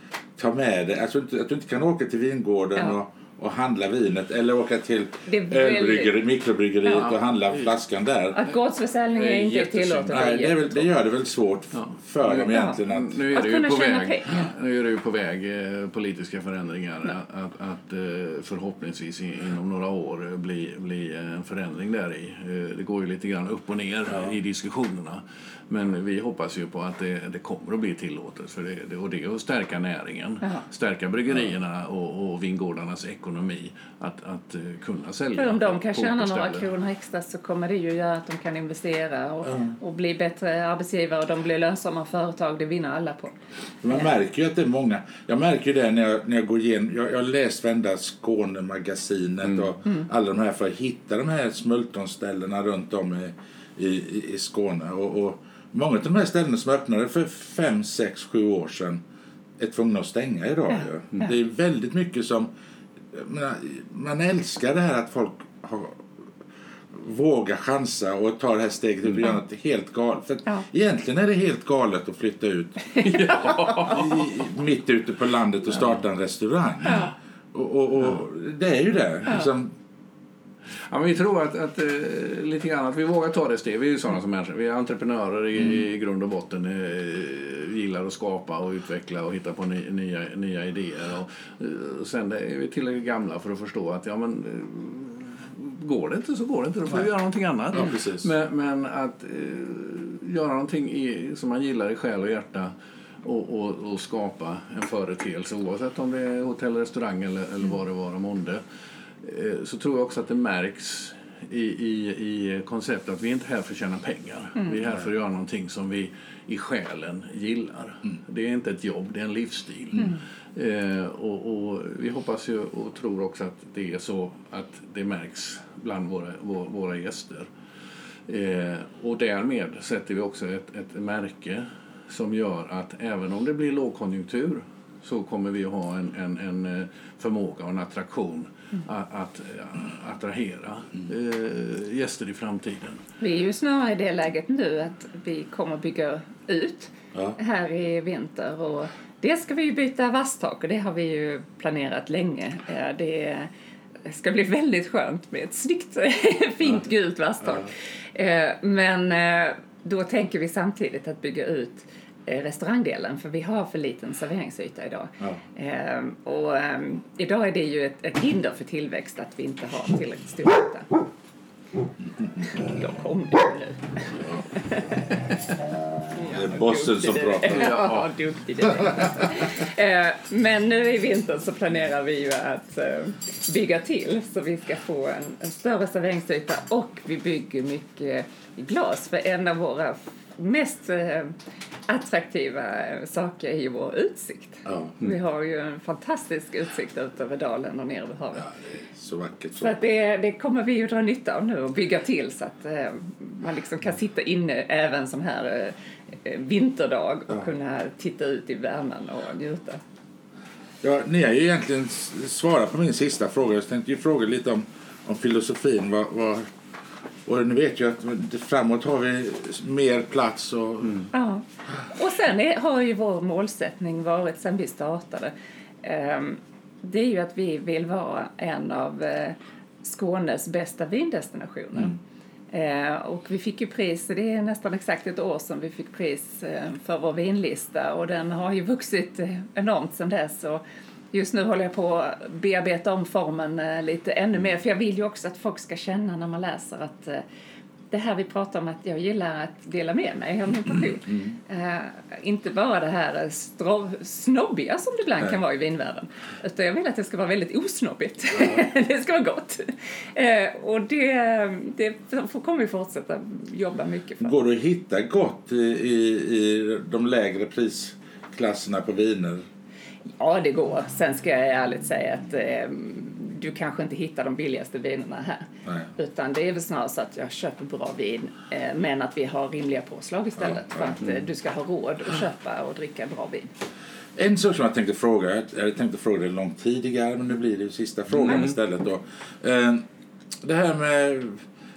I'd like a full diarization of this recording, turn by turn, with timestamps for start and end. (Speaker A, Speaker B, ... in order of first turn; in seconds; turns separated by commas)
Speaker A: 0.4-8.4, Speaker B: 5.3-6.2, Speaker C: 7.0-7.7, Speaker B: 8.4-10.8, Speaker C: 9.2-10.3, Speaker A: 10.1-13.2, Speaker C: 11.7-36.7, Speaker B: 12.5-12.8, Speaker B: 13.3-14.5, Speaker B: 35.4-43.4, Speaker A: 39.5-39.7, Speaker A: 43.8-59.0, Speaker A: 59.6-62.5, Speaker A: 63.1-66.0, Speaker A: 66.9-79.7, Speaker B: 73.0-73.7, Speaker C: 73.0-74.1, Speaker B: 76.9-77.1, Speaker C: 80.9-108.6, Speaker A: 97.7-98.3, Speaker C: 109.2-127.5, Speaker C: 128.3-143.0, Speaker B: 143.2-153.5, Speaker B: 154.1-171.1, Speaker B: 172.5-175.1, Speaker B: 176.1-191.3, Speaker A: 176.3-177.7, Speaker C: 177.5-178.1, Speaker B: 191.9-198.5, Speaker A: 194.7-195.0, Speaker A: 198.4-199.8, Speaker B: 199.6-209.8, Speaker A: 210.8-216.5, Speaker A: 217.2-221.1, Speaker B: 221.1-232.0, Speaker B: 232.5-247.2, Speaker B: 247.9-264.4, Speaker A: 251.1-251.3, Speaker A: 264.2-269.4, Speaker B: 270.2-283.5, Speaker A: 280.4-280.9, Speaker A: 284.2-289.9, Speaker A: 290.4-291.5